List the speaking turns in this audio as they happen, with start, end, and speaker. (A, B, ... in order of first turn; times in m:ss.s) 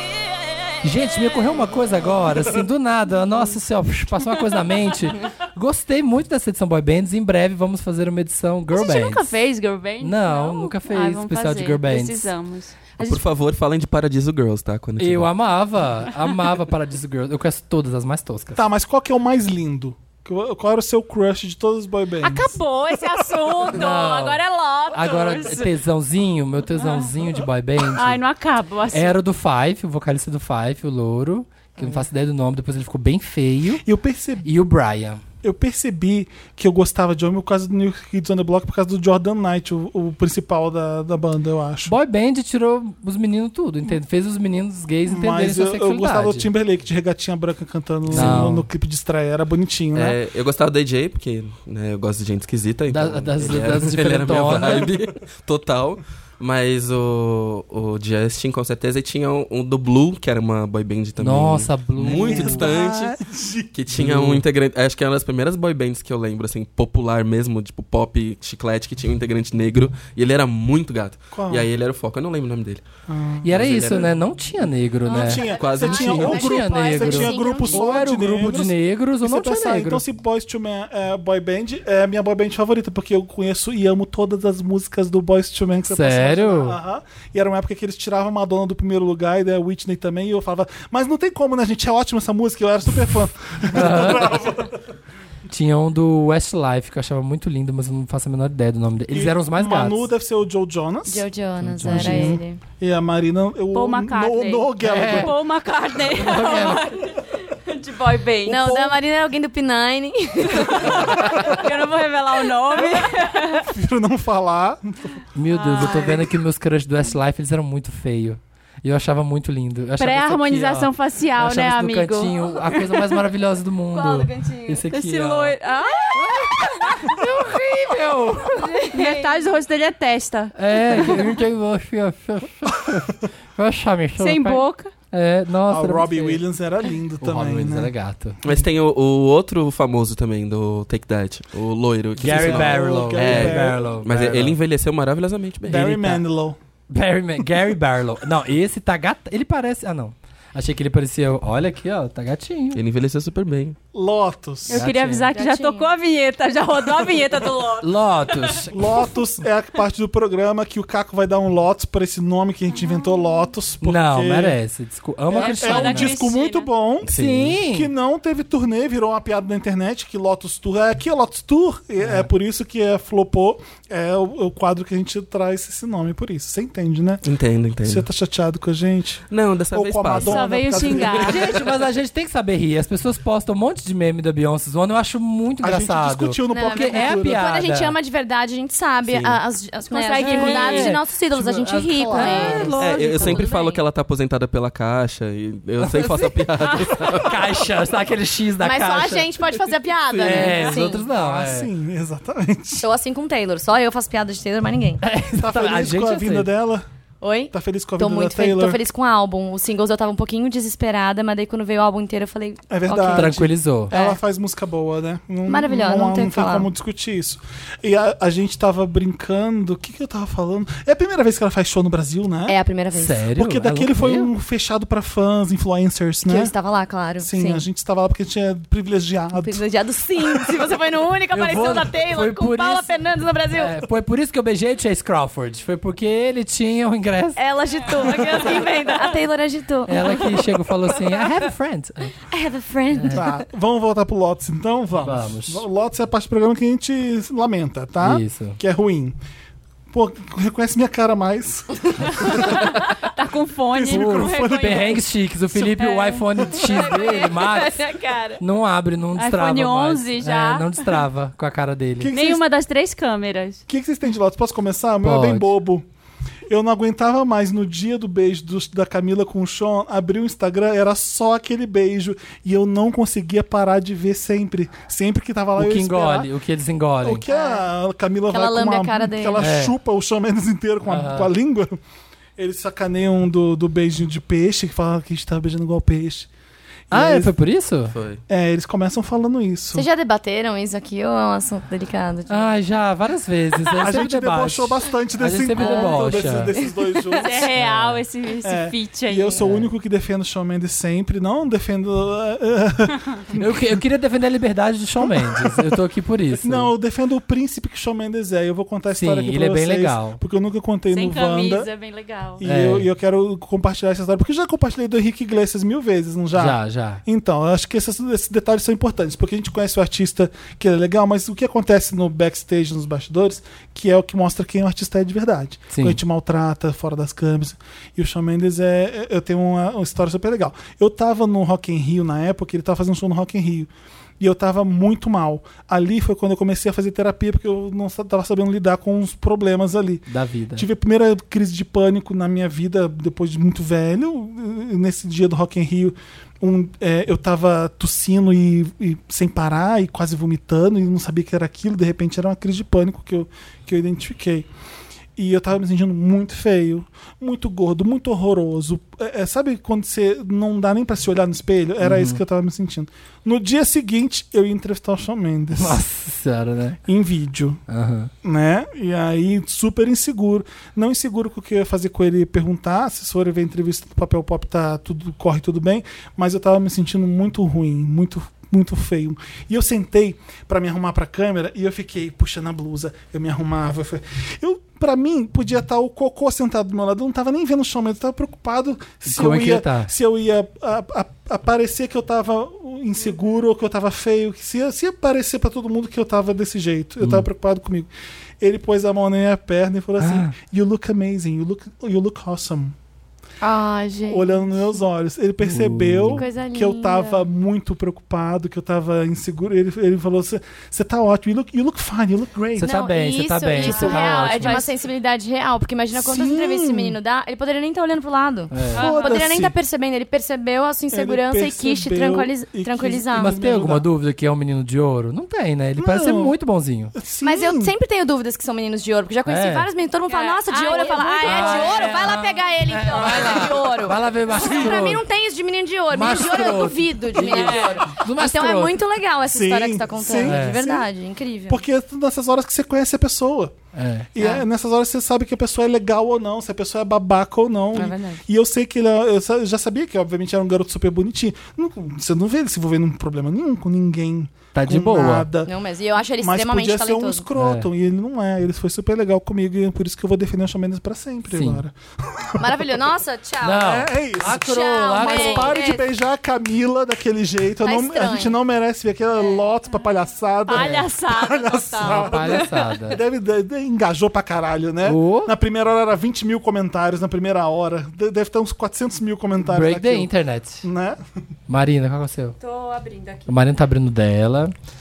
0:00.8-0:09.3 A
0:08.7-0:13.3 B
0:10.0-0:12.3 A
0:13.0-0:15.3 C
0:15.0-0:18.6 A
0:18.5-0:22.6 D
0:22.2-0:25.7 B
0:23.7-0:24.4 A
0:24.9-0:28.2 A
0:26.7-0:27.1 B
0:27.9-0:29.2 B
0:28.9-0:33.8 A
0:33.8-0:34.5 D
0:34.4-0:35.2 A
0:35.4-0:41.9 D
0:41.8-0:46.5 A
0:45.0-0:50.2 D
0:48.1-0:48.5 C
0:48.1-0:48.7 A
0:49.9-1:03.2 C
0:52.9-0:54.9 A
1:01.2-1:02.7 A
1:02.1-1:03.7 D
1:03.7-1:12.8 C
1:03.9-1:04.4 A
1:11.3-1:11.7 D
1:13.1-1:14.1 D
1:13.4-1:20.0 A
1:13.6-1:14.0 C
1:15.0-1:34.8 D
1:15.1-1:18.0 E
1:15.5-1:16.4 C
1:25.9-1:26.8 A
1:33.7-1:34.4 A
1:35.5-1:40.1 A
1:39.1-1:41.3 D
1:41.1-1:42.6 E
1:41.6-1:42.4 A
1:41.8-1:45.3 D
1:43.7-1:48.8 B
1:44.8-1:45.3 A
1:46.1-1:46.9 A
1:48.4-1:51.4 E
1:50.6-1:53.6 B
1:53.5-1:55.2 D
1:55.3-2:05.6 A
1:55.5-1:56.2 B
1:55.8-1:56.2 E
2:00.0-2:03.1 B
2:03.9-2:04.8 E
2:04.9-2:06.9 B
2:06.1-2:08.7 A
2:06.9-2:07.2 E
2:08.5-2:09.5 E
2:08.9-2:11.2 B
2:10.6-2:16.4 A
2:14.2-2:14.9 B
2:15.7-2:17.9 D
2:17.2-2:18.4 A
2:18.4-2:25.9 C
2:22.2-2:24.6 A
2:22.2-2:24.0 D
2:25.6-2:26.6 D
2:25.7-2:26.2 A
2:26.9-2:32.8 A
2:32.7-2:33.8 C
2:33.9-2:34.8 D
2:34.7-2:38.5 B
2:34.7-2:35.3 A
2:35.3-2:35.9 E
2:37.8-2:38.8 A
2:38.7-2:44.6 D
2:43.8-2:46.2 A
2:45.3-2:57.2 D
2:45.3-2:46.7 B
2:47.1-2:47.9 A
2:47.1-2:47.4 C
2:52.0-2:52.3 A
2:57.2-2:58.0 C
2:57.8-3:01.3 D
2:59.3-3:01.6 C
3:00.2-3:01.5 B
3:01.2-3:07.9 A
3:05.6-3:07.4 D
3:06.5-3:13.8 E
3:09.1-3:09.3 C
3:09.9-3:11.0 B
3:10.2-3:13.4 A
3:11.6-3:12.7 D
3:12.2-3:13.5 B
3:12.8-3:17.5 C
3:15.8-3:19.4 A
3:18.6-3:21.0 E
3:20.2-3:20.7 C
3:20.2-3:21.7 A
3:20.9-3:22.9 D
3:22.8-3:25.0 E
3:25.0-3:26.5 A
3:25.3-3:26.9 D
3:27.2-3:34.2 E
3:27.5-3:28.8 D
3:32.7-3:42.6 D
3:33.1-3:33.9 A
3:35.5-3:36.7 E
3:42.5-3:43.2 E
3:42.9-3:44.3 A
3:43.4-3:46.5 D
3:46.2-3:47.6 E
3:47.2-3:49.6 D
3:49.4-3:53.8 E
3:51.3-3:52.9 A
3:53.5-3:57.4 A
3:57.4-4:00.4 E
3:58.0-3:59.1 B
3:59.9-4:02.1 A
4:02.3-4:03.4 E
4:02.9-4:03.2 A
4:03.1-4:09.2 D
4:05.0-4:05.6 A
4:08.0-4:08.6 A
4:09.9-4:12.8 D
4:12.3-4:15.0 B
4:13.7-4:15.0 D
4:13.9-4:17.8 A
4:15.5-4:16.5 B
4:16.6-4:18.4 E
4:18.4-4:22.1 A
4:19.2-4:21.0 B
4:22.0-4:22.4 D
4:22.1-4:23.6 B
4:23.7-4:25.8 D
4:25.0-4:25.5 A
4:26.5-4:36.3 D
4:35.6-4:37.2 A
4:37.0-4:41.8 D
4:37.3-4:37.7 E
4:38.3-4:39.4 E
4:39.4-4:39.7 A
4:40.9-4:41.3 A
4:42.4-4:46.3 D
4:46.9-4:47.3 D
4:46.9-4:47.9 A
4:47.9-4:48.2 C
4:48.3-4:49.8 D
4:49.7-4:52.5 E
4:52.3-4:56.5 A
4:53.8-4:57.5 D
4:55.6-4:57.4 E
4:57.2-4:59.4 B
4:57.5-4:58.0 A
4:58.4-5:03.8 D
4:59.4-4:59.7 A
5:03.3-5:06.7 A
5:05.0-5:05.8 D
5:06.3-5:11.7 D
5:08.9-5:10.2 A
5:10.9-5:12.4 B
5:12.4-5:54.5 D
5:12.4-5:12.9 A
5:16.3-5:17.0 A
5:25.7-5:26.0 A
5:40.1-5:40.7 A
5:55.2-6:05.8 D
6:01.8-6:02.2 A
6:05.5-6:06.8 A
6:06.8-6:07.6 D
6:07.7-6:08.1 A
6:08.2-6:42.7 D
6:29.0-6:29.9 A
6:37.0-6:37.2 A
6:40.0-6:40.3 A
6:43.4-6:44.8 E
6:44.1-6:52.8 D
6:45.4-6:46.2 A
6:46.1-6:47.3 E
6:52.6-6:54.6 A
6:52.6-7:03.3 E
6:53.6-6:54.7 B
6:55.9-6:57.0 D
6:58.5-6:58.8 A
6:58.7-6:59.5 D
6:58.7-6:59.2 B
7:00.9-7:03.8 D
7:03.2-7:06.9 A
7:05.8-7:06.4 D
7:06.9-7:07.7 D
7:07.2-7:21.6 E
7:09.3-7:09.7 A
7:10.1-7:12.2 B
7:11.2-7:15.0 A
7:13.1-7:13.3 B
7:15.9-7:18.8 A
7:17.2-7:17.8 B
7:19.3-7:20.9 D
7:20.2-7:20.6 A
7:21.5-7:23.5 D
7:23.7-7:24.1 A
7:24.1-7:35.5 D
7:27.7-7:28.2 E
7:34.5-7:35.3 A
7:35.4-7:37.2 E
7:36.2-7:42.7 D
7:37.4-7:37.7 A
7:41.3-7:41.6 A
7:42.4-7:45.8 E
7:43.4-7:45.6 A
7:43.6-8:01.0 D
7:47.6-7:48.4 E
7:50.5-7:52.4 B
7:50.5-7:50.8 A
7:51.8-7:52.1 E
7:51.8-7:53.0 A
7:54.8-7:55.3 A
7:59.4-8:00.6 A
8:01.5-8:02.4 A
8:02.4-8:03.4 B
8:03.3-8:04.5 A